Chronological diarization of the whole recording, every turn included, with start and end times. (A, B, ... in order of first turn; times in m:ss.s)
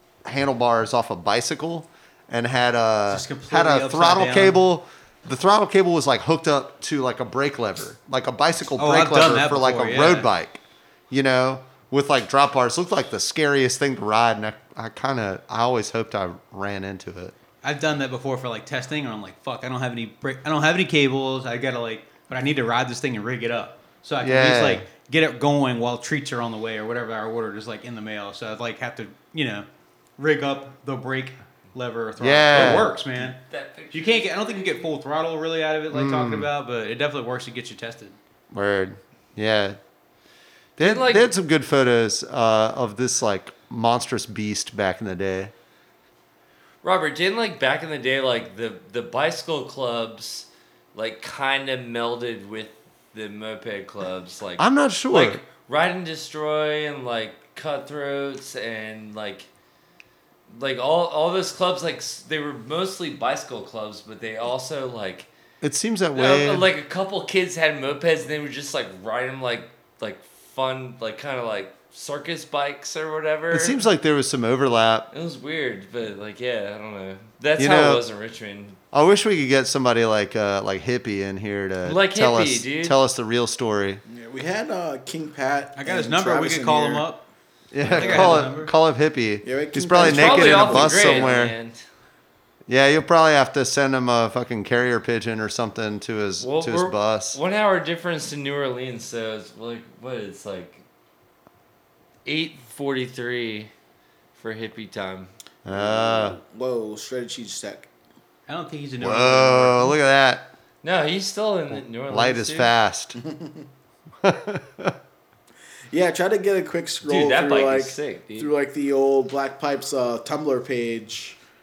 0:00.2-0:17.4 A
0:03.1-0:04.6 B
0:08.8-0:10.3 B
0:17.6-0:29.7 B
0:24.2-0:24.8 A
0:30.2-0:33.4 B
0:32.2-0:32.9 A
0:32.5-0:34.9 C
0:33.9-0:38.2 B
0:35.9-0:36.5 A
0:38.5-0:39.8 A
0:40.8-0:45.5 A
0:40.8-0:41.3 C
0:46.8-0:59.5 C
0:54.6-0:55.4 A
1:00.5-1:05.3 C
1:05.6-1:06.7 A
1:06.2-1:13.8 C
1:13.5-1:15.1 A
1:15.1-1:18.8 C
1:17.6-1:18.0 A
1:18.9-1:24.0 A
1:21.8-1:23.0 C
1:24.1-1:27.0 D
1:25.8-1:27.2 B
1:27.7-1:31.6 A
1:27.8-1:28.5 D
1:27.9-1:28.7 B
1:29.4-1:31.3 D
1:30.0-1:31.8 C
1:32.7-1:37.4 A
1:36.4-1:40.8 C
1:42.2-1:43.7 C
1:44.4-1:45.3 C
1:45.6-1:46.4 A
1:45.7-1:47.9 D
1:48.5-1:49.9 B
1:49.0-1:50.5 A
1:50.8-1:52.7 C
1:51.7-1:53.2 A
1:53.2-1:53.6 D
1:54.2-1:55.0 A
1:55.9-2:01.4 D
1:57.0-1:58.5 C